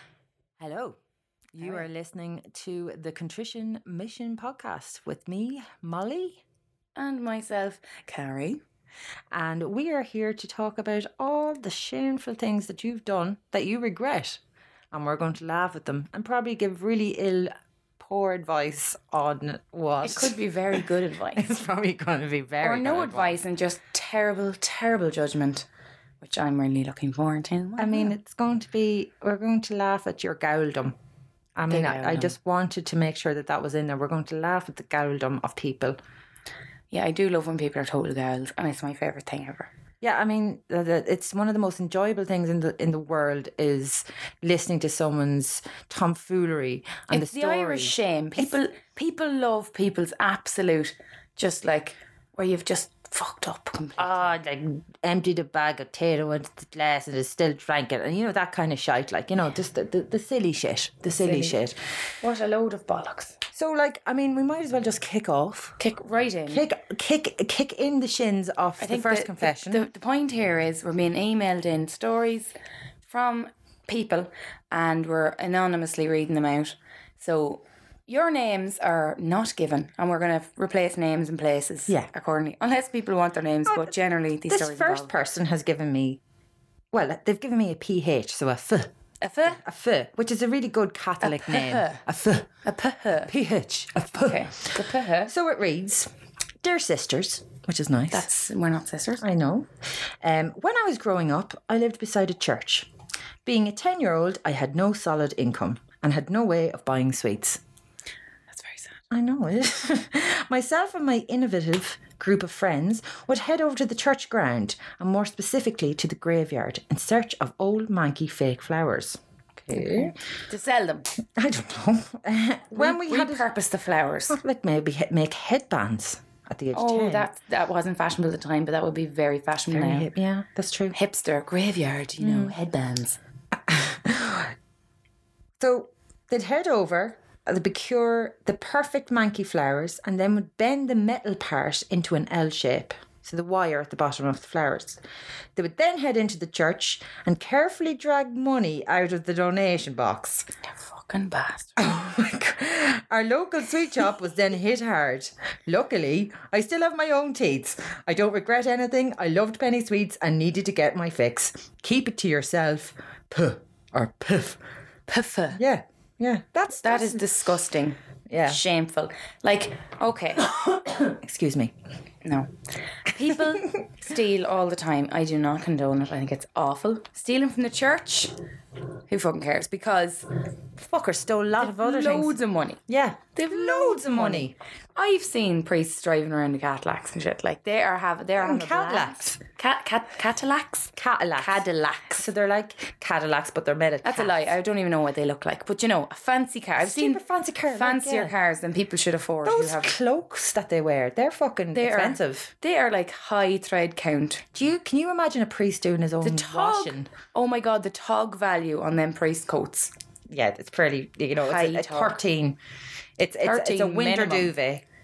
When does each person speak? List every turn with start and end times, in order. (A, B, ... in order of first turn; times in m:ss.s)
0:00.6-0:01.0 A
0:01.5-0:06.4 A
0:07.0-0:08.6 B
0:09.3-0:14.4 A
0:14.9-0:23.4 A
0:20.0-0:21.4 B
0:22.6-0:25.6 B
0:26.2-0:28.2 B
0:27.8-0:30.9 A
0:31.6-0:36.0 A
0:31.7-0:32.3 B
0:36.9-0:39.7 B
0:40.0-0:48.5 A
0:47.1-0:54.3 B
0:54.0-1:01.8 A
1:01.2-1:01.6 B
1:02.2-1:03.4 B
1:03.5-1:05.8 A
1:05.8-1:06.6 B
1:06.5-1:09.8 A
1:08.8-1:12.5 B
1:13.0-1:25.1 B
1:23.6-1:23.9 A
1:24.5-1:26.2 A
1:26.9-1:28.9 A
1:29.2-1:29.6 B
1:29.4-1:32.5 A
1:31.2-1:32.0 B
1:32.6-1:33.3 B
1:33.2-1:36.1 A
1:34.2-1:35.3 B
1:36.6-1:38.3 A
1:38.1-1:39.2 B
1:39.2-1:39.7 A
1:40.2-1:42.9 A
1:43.4-1:47.6 A
1:48.5-1:48.9 B
1:49.1-2:00.1 A
1:59.7-2:01.1 B
2:01.4-2:03.5 A
2:02.7-2:04.4 B
2:04.3-2:07.3 A
2:06.7-2:10.1 B
2:09.7-2:11.0 A
2:10.9-2:13.2 B
2:12.2-2:12.5 A
2:13.5-2:14.5 A
2:15.6-2:25.0 A
2:25.6-2:30.5 A
2:30.8-2:31.8 B
2:31.8-2:44.6 A
2:45.1-2:45.6 B
2:45.5-2:47.3 A
2:46.8-2:50.5 B
2:48.3-2:48.6 A
2:51.0-2:51.7 A
2:52.2-2:58.3 B
2:59.1-3:00.3 B
3:00.8-3:04.5 A
3:01.6-3:02.8 B
3:03.4-3:12.2 B
3:08.4-3:09.4 A
3:11.0-3:14.3 A
3:14.0-3:19.9 B
3:16.8-3:18.3 A
3:19.4-3:22.5 A
3:21.7-3:24.4 B
3:24.5-3:27.1 A
3:26.2-3:29.9 B
3:30.3-3:32.6 A
3:31.4-3:32.2 B
3:33.2-3:34.8 A
3:33.4-3:34.5 B